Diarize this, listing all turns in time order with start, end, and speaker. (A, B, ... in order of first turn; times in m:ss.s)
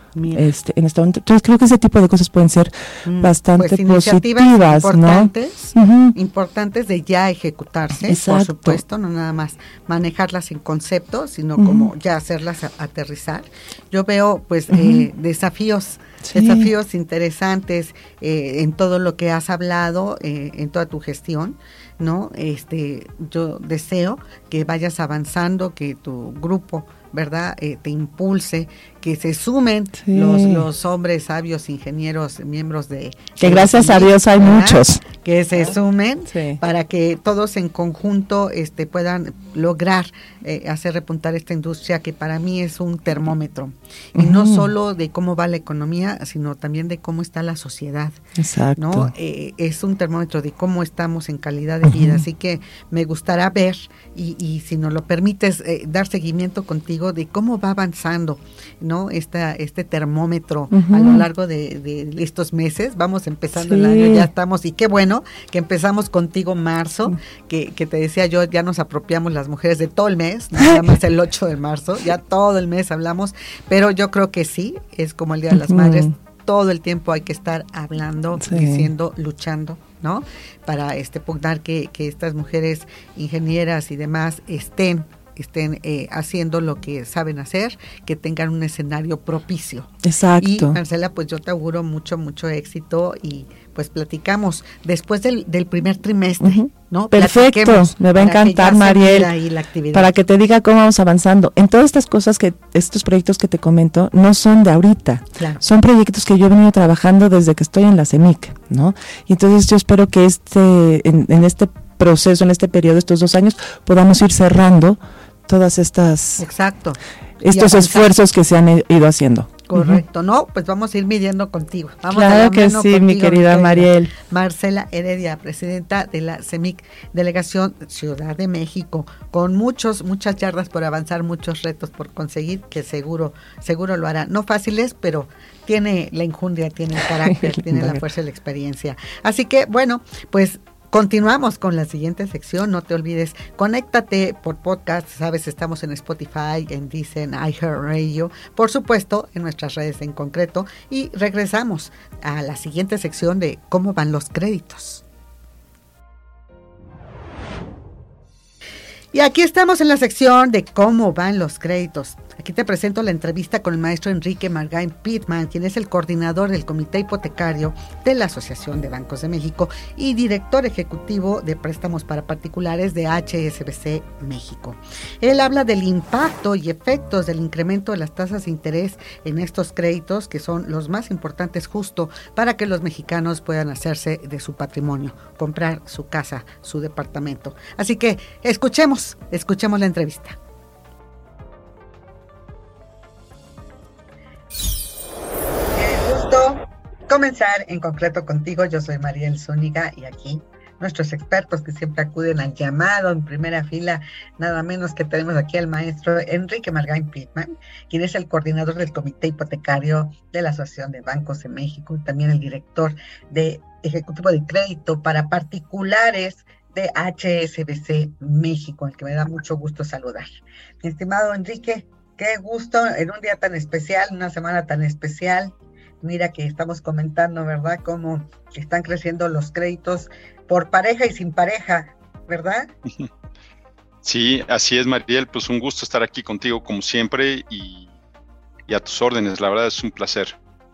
0:00.2-0:00.5 A
0:00.3-0:06.2 B
0:03.0-0:48.2 A
0:07.9-0:08.8 B
0:11.6-0:11.9 B
0:14.7-0:15.1 B
0:16.2-0:16.7 B
0:30.0-0:30.7 B
0:33.4-0:35.0 B
0:36.3-0:36.6 B
0:44.2-0:44.7 B
0:48.4-0:49.1 B
0:48.8-1:40.1 A
0:51.8-0:52.2 B
1:00.7-1:01.3 B
1:03.6-1:04.3 B
1:10.6-1:10.9 B
1:15.5-1:16.1 B
1:18.4-1:18.9 B
1:30.0-1:30.8 B
1:36.4-1:39.3 B
1:39.9-1:56.5 B
1:45.4-1:45.6 A
1:56.4-1:58.1 A
1:57.4-2:00.0 B
1:59.7-2:35.0 A
2:02.1-2:04.1 B
2:17.2-2:18.0 B
2:39.1-3:10.4 A
3:15.7-3:52.7 A
3:54.0-3:57.9 C
3:58.7-4:00.4 C